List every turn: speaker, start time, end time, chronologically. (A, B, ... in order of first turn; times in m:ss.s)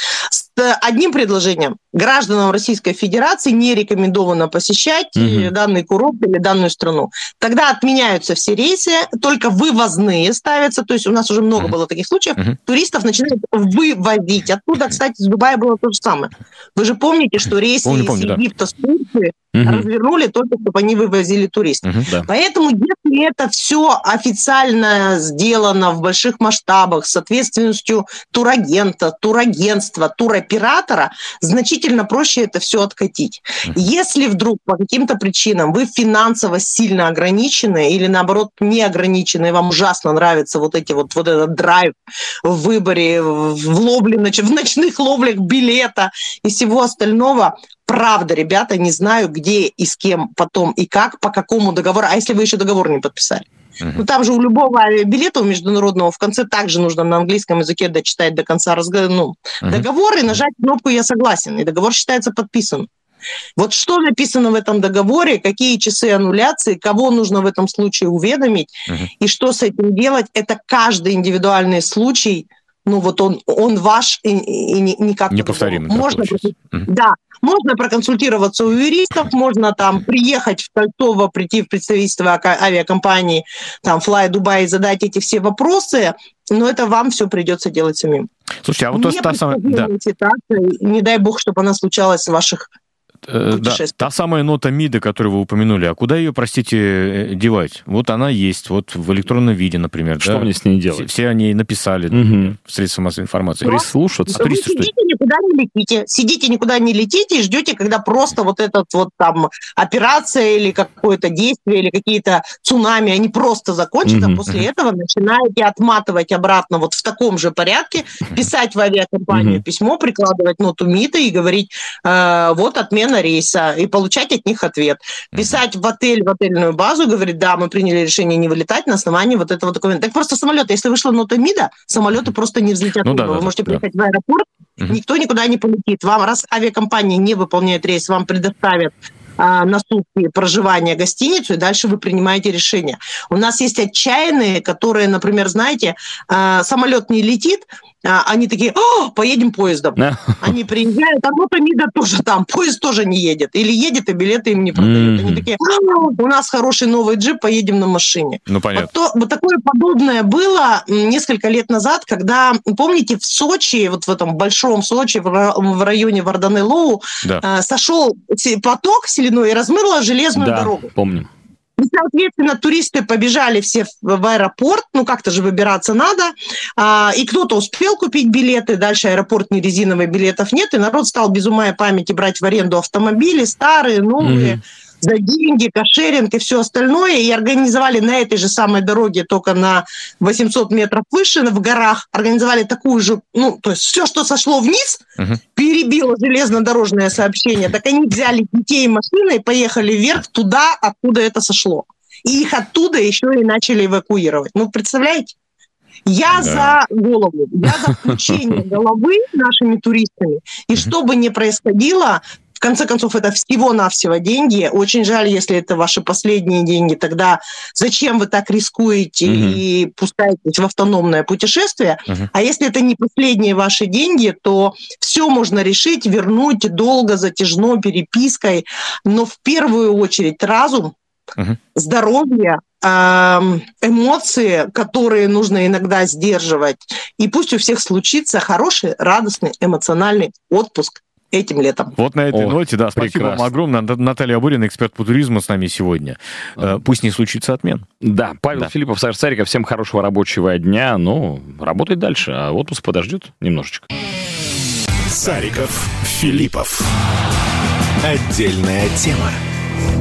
0:00.2-1:02.9 A
0:05.2-0:05.5 B
0:17.8-0:18.4 C
0:19.6-0:19.9 B
1:03.6-1:28.3 A
1:15.3-1:16.9 C
1:28.6-1:29.9 C
1:28.9-1:32.7 A
1:33.3-1:44.9 C
1:33.5-1:34.1 A
1:40.2-1:41.1 B
1:42.1-1:42.5 B
1:43.6-1:44.4 B
1:43.7-2:50.9 A
1:54.1-1:54.4 B
1:59.3-1:59.6 B
2:13.0-2:13.8 C
2:30.0-2:30.5 B
2:34.8-2:35.5 B
2:38.5-2:38.9 C
2:50.4-2:51.3 B
2:51.8-3:25.4 A
3:04.2-3:04.6 B
3:26.1-3:51.0 A
3:26.3-3:26.8 C
3:39.3-3:39.6 B
3:51.7-4:01.9 A
4:02.0-4:07.9 C
4:02.3-4:03.5 B
4:08.0-4:13.9 B
4:15.1-4:16.9 D
4:18.0-4:19.4 D